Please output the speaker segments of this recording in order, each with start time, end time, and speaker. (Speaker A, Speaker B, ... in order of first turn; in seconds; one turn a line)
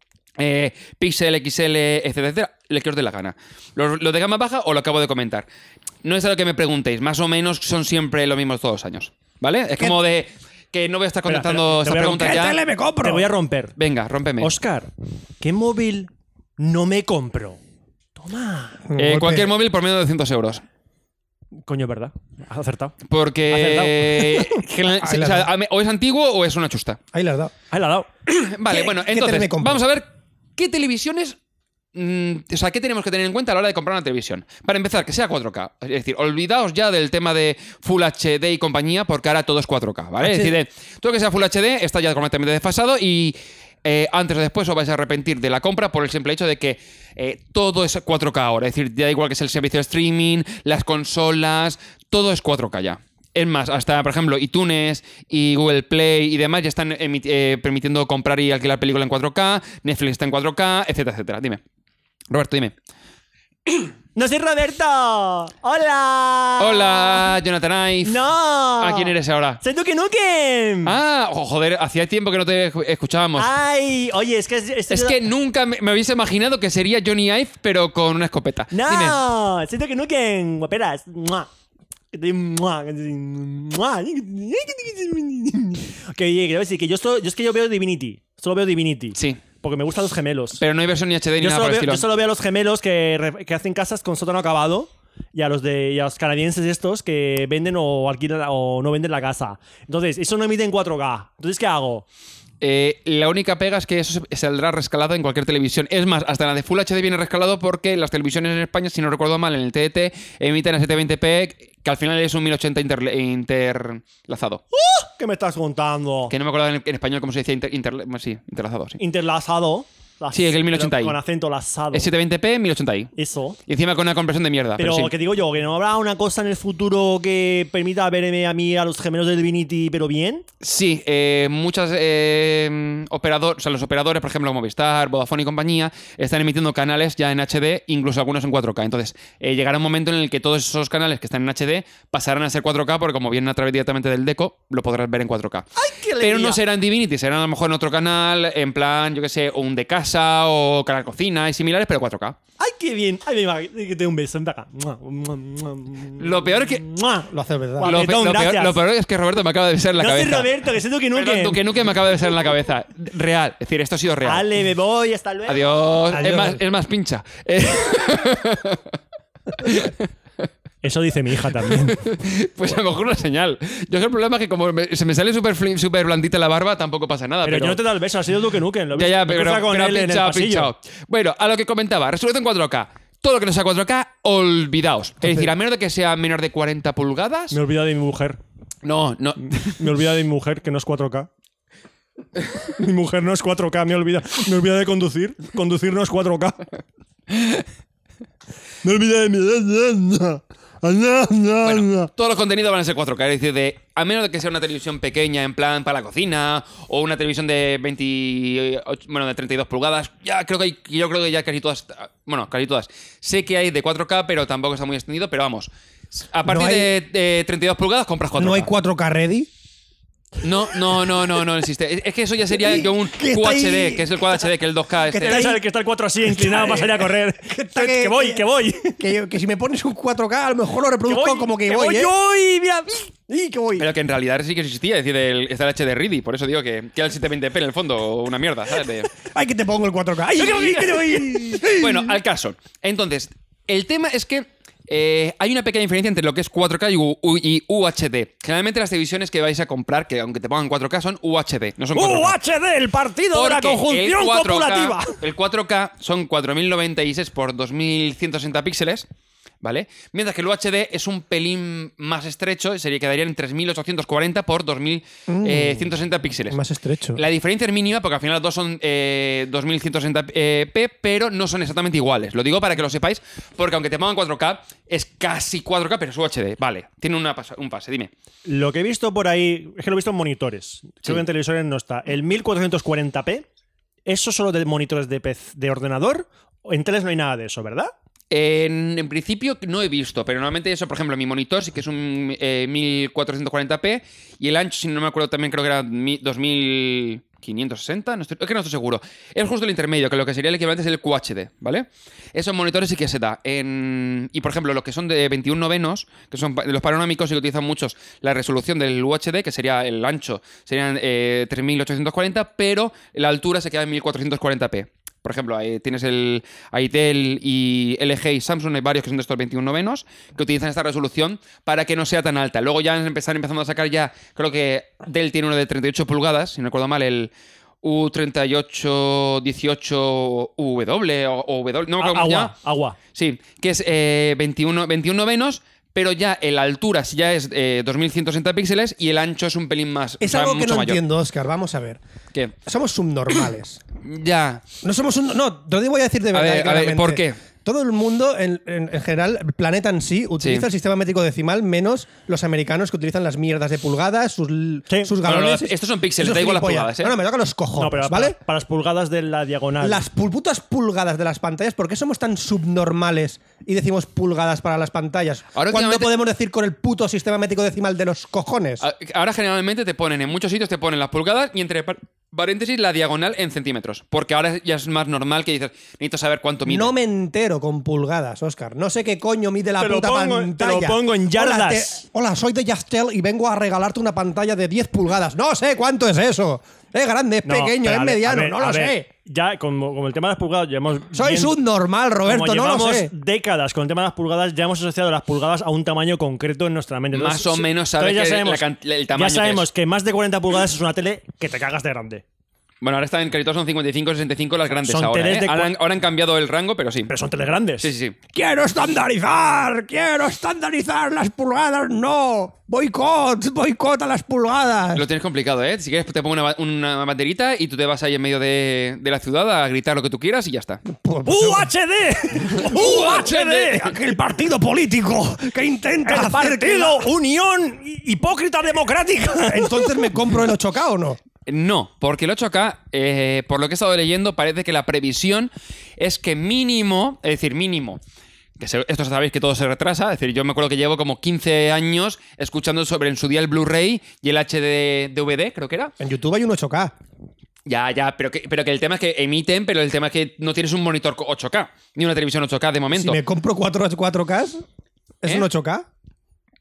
Speaker A: 0.4-5.5
Speaker A: 6.0-12.6
Speaker B: 11.3-12.4
Speaker C: 12.0-13.3
Speaker B: 13.0-13.7
Speaker A: 13.8-14.5
Speaker B: 14.4-14.9
Speaker B: 15.4-17.6
Speaker B: 18.2-18.9
Speaker C: 18.9-19.5
Speaker A: 18.9-20.6
Speaker B: 21.7-22.9
Speaker A: 23.1-27.0
Speaker B: 23.5-24.6
Speaker C: 25.0-25.5
Speaker C: 27.1-27.5
Speaker B: 27.7-28.1
Speaker A: 28.3-31.4
Speaker C: 28.7-29.8
Speaker A: 31.9-61.6
Speaker C: 40.2-40.5
Speaker A: 62.3-62.7
Speaker B: 64.1-67.3
Speaker A: 66.6-68.2
Speaker B: 68.0-71.0
Speaker A: 68.8-69.6
Speaker A: 70.8-73.5
Speaker B: 73.3-75.2
Speaker A: 74.9-79.2
Speaker B: 78.7-81.5
Speaker B: 82.1-90.6
Speaker A: 89.2-89.4
Speaker A: 90.6-92.1
Speaker B: 91.4-102.0
Speaker A: 102.6-114.6
Speaker B: 114.7-116.3
Speaker A: 116.3-119.0
Speaker B: 119.0-122.1
Speaker A: 120.3-121.2
Speaker A: 121.9-123.1
Speaker B: 123.1-123.6
Speaker A: 123.7-125.1
Speaker B: 124.8-130.4
Speaker A: 130.6-152.4
Speaker B: 145.8-146.6
Speaker B: 152.6-158.8
Speaker A: 156.2-156.8
Speaker C: 157.3-157.9
Speaker A: 157.8-160.5
Speaker B: 160.0-161.6
Speaker A: 161.1-164.4
Speaker B: 164.2-165.6
Speaker A: 165.5-168.9
Speaker C: 166.1-166.6
Speaker A: 169.6-170.1
Speaker B: 170.8-172.0
Speaker A: 171.8-177.8
Speaker B: 177.4-180.7
Speaker A: 178.9-187.6
Speaker B: 187.5-188.4
Speaker A: 188.8-189.8
Speaker B: 189.4-191.3
Speaker B: 192.8-196.7
Speaker B: 198.8-202.1
Speaker A: 201.6-218.7
Speaker C: 216.4-216.9
Speaker C: 218.4-219.5
Speaker A: 220.4-225.5
Speaker C: 222.5-224.2
Speaker C: 225.1-225.6
Speaker B: 225.2-229.0
Speaker C: 226.2-228.4
Speaker C: 229.0-232.1
Speaker B: 231.1-233.1
Speaker C: 233.3-233.9
Speaker A: 233.8-239.1
Speaker C: 239.2-242.1
Speaker B: 240.4-241.6
Speaker A: 241.7-252.3
Speaker B: 251.9-255.2
Speaker A: 253.3-259.1
Speaker A: 259.6-266.6
Speaker C: 265.3-265.9
Speaker C: 266.5-267.2
Speaker A: 267.1-278.1
Speaker B: 278.4-283.4
Speaker B: 284.1-287.9
Speaker A: 288.3-327.3
Speaker A: 327.8-332.5
Speaker B: 332.0-333.0
Speaker A: 333.1-341.0
Speaker C: 340.2-342.0
Speaker C: 342.6-343.8
Speaker A: 344.0-344.6
Speaker C: 344.8-358.4
Speaker A: 346.3-347.4
Speaker A: 350.4-350.7
Speaker B: 354.9-355.1
Speaker A: 355.2-357.1
Speaker B: 357.8-360.0
Speaker C: 359.8-368.8
Speaker A: 365.5-366.1
Speaker A: 368.8-376.9
Speaker C: 376.6-389.1
Speaker B: 379.8-382.0
Speaker B: 387.4-391.6
Speaker C: 391.1-393.1
Speaker B: 392.2-402.2
Speaker A: 397.1-399.7
Speaker A: 402.8-407.1
Speaker B: 404.8-405.7
Speaker B: 407.1-407.9
Speaker A: 407.8-408.1
Speaker C: 408.3-415.1
Speaker A: 414.9-420.8
Speaker C: 420.9-421.7
Speaker B: 421.2-423.9
Speaker C: 422.5-427.1
Speaker A: 422.6-423.8
Speaker B: 426.0-430.1
Speaker C: 429.4-431.2
Speaker A: 431.4-438.0
Speaker A: 438.6-445.9
Speaker C: 446.0-446.9
Speaker A: 447.6-453.2
Speaker C: 452.9-454.6
Speaker C: 455.2-455.9